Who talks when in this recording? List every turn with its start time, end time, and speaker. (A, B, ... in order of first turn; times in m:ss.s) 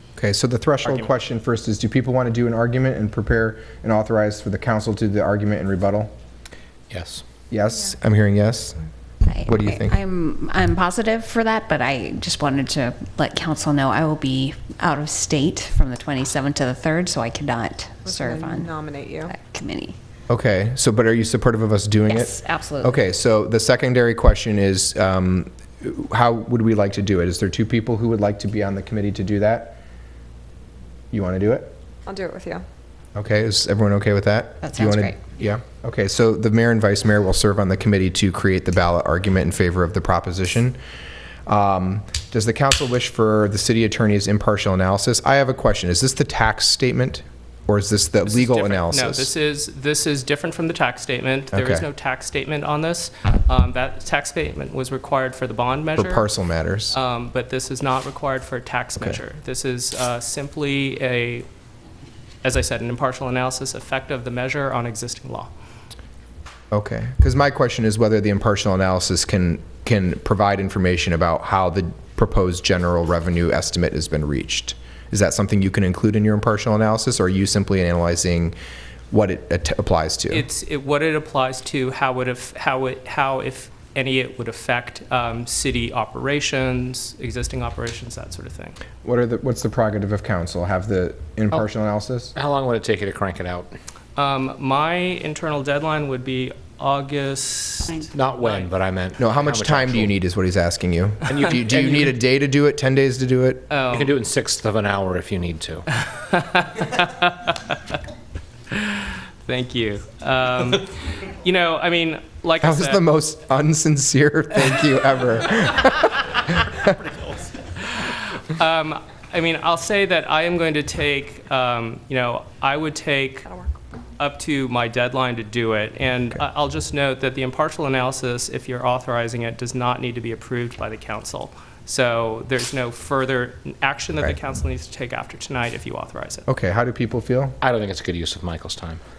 0:00.2-0:06.1 A
0:00.8-0:01.1 B
0:06.9-0:07.2 C
0:07.5-0:08.8 A
0:09.2-0:18.7 D
0:09.4-0:10.0 A
0:18.1-0:19.3 E
0:19.3-0:20.0 D
0:20.3-0:29.8 A
0:22.1-0:23.0 D
0:31.1-0:31.8 A
0:32.1-0:32.6 E
0:33.2-0:40.8 A
0:34.6-0:35.2 D
0:41.5-0:49.3 A
0:48.3-0:56.3 B
0:51.5-0:51.9 A
0:56.0-0:57.0 A
0:56.9-1:01.5 B
1:02.4-1:05.5 B
1:06.7-1:18.6 A
1:19.1-1:20.5 A
1:20.3-1:28.8 B
1:29.0-1:32.3 A
1:32.4-1:33.7 C
1:34.2-1:38.7 B
1:38.1-1:40.1 C
1:39.2-1:43.7 A
1:41.3-1:42.1 C
1:43.7-1:44.1 B
1:43.9-1:45.9 C
1:46.2-1:48.0 B
1:48.8-1:53.1 B
1:52.6-1:57.1 A
1:57.9-2:03.5 B
2:03.4-2:03.7 E
2:04.2-2:16.5 B
2:16.5-2:17.6 A
2:17.6-2:19.0 C